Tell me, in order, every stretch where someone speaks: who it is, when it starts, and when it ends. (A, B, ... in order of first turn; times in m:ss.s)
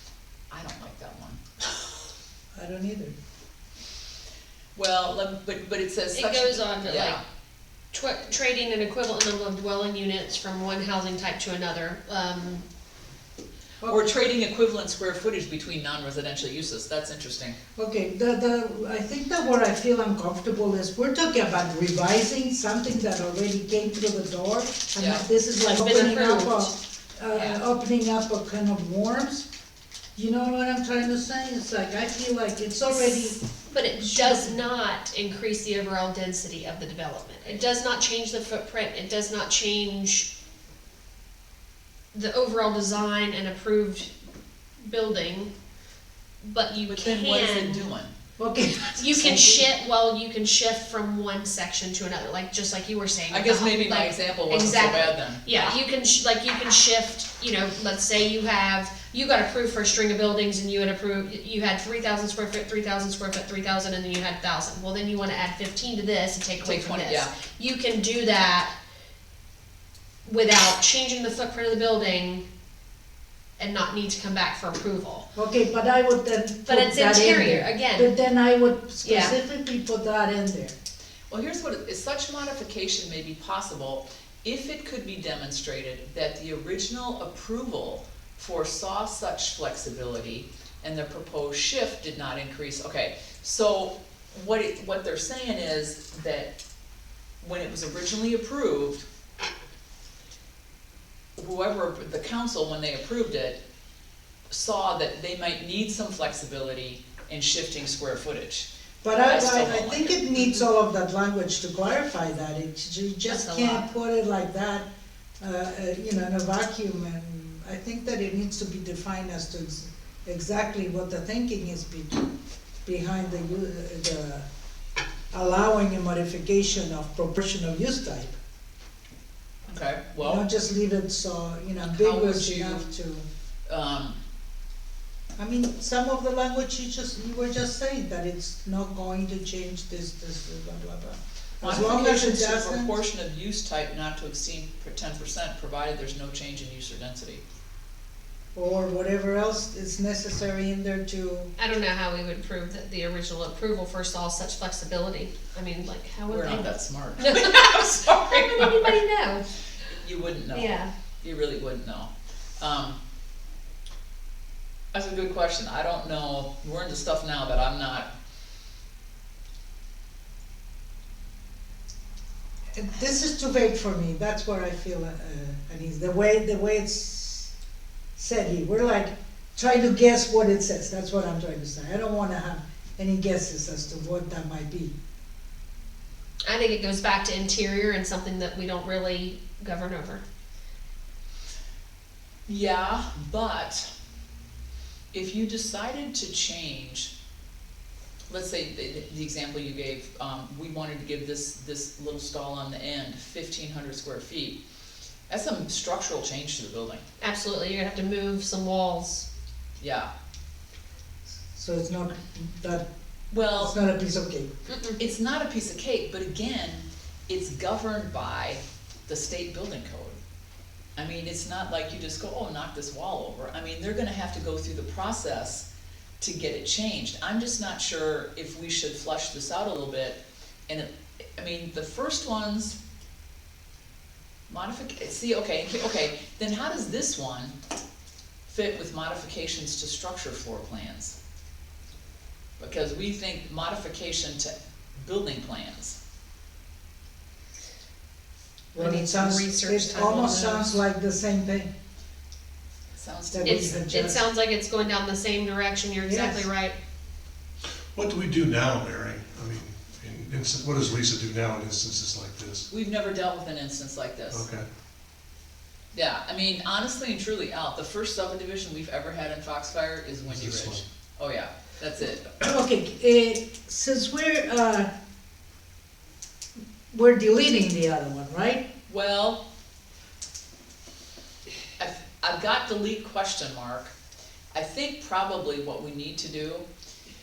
0:00.5-0:01.4 A
0:02.6-0:03.2 B
0:04.8-0:07.2 A
0:06.1-0:07.2 C
0:07.9-0:12.6 C
0:13.8-0:14.1 B
0:13.8-0:17.6 A
0:17.8-0:29.5 B
0:25.0-0:25.3 A
0:25.6-0:26.7 C
0:27.3-0:27.6 A
0:30.2-0:33.4 B
0:33.3-0:40.3 C
0:34.0-0:34.6 B
0:42.1-0:44.1 C
0:44.8-0:45.5 C
0:46.4-0:47.9 C
0:46.9-0:48.1 A
0:48.4-0:49.7 B
0:49.0-1:08.7 C
0:53.3-0:55.7 A
1:06.6-1:07.3 A
1:10.2-1:12.5 C
1:13.6-1:15.3 C
1:15.4-1:20.8 B
1:16.7-1:18.1 C
1:19.0-1:19.3 C
1:21.3-1:36.5 A
1:37.4-1:39.0 A
1:41.4-1:43.6 A
1:44.5-1:50.2 A
1:49.0-1:54.9 B
1:53.3-1:53.9 C
1:55.4-2:02.3 B
2:02.8-2:04.4 B
2:05.3-2:08.4 B
2:09.7-2:10.4 A
2:10.2-2:13.3 B
2:11.9-2:12.9 A
2:13.7-2:14.2 A
2:15.4-2:23.0 B
2:21.6-2:27.4 A
2:28.6-2:31.5 B
2:31.6-2:39.4 C
2:36.3-2:39.0 A
2:40.0-2:43.0 A
2:40.5-2:40.9 C
2:44.9-2:48.1 A
2:52.8-2:57.5 B
2:58.2-3:05.0 B
3:06.4-3:10.2 C
3:12.5-3:13.9 A
3:15.1-3:17.1 A
3:18.3-3:24.6 A
3:25.3-3:27.0 A
3:27.2-3:29.3 C
3:29.8-3:30.1 A
3:31.5-3:32.9 B
3:33.3-3:33.8 A
3:33.5-3:34.5 B
3:34.7-3:35.0 C
3:35.0-3:40.2 A
3:41.0-3:45.7 A
3:46.2-3:52.8 A
3:54.5-3:57.6 A
3:58.5-4:01.2 A
4:02.6-4:06.0 A
4:08.7-4:11.7 B
4:08.8-4:10.8 C
4:13.0-4:13.7 A
4:13.3-4:14.2 B
4:13.4-4:16.8 C
4:16.1-4:16.5 B
4:17.9-4:22.7 D
4:22.7-4:24.4 A
4:24.3-4:24.6 D
4:25.9-4:32.3 A
4:30.3-4:30.8 D
4:32.4-4:34.9 B
4:36.9-4:38.7 B
4:38.9-4:39.4 A
4:41.8-4:43.9 A
4:44.5-4:46.7 A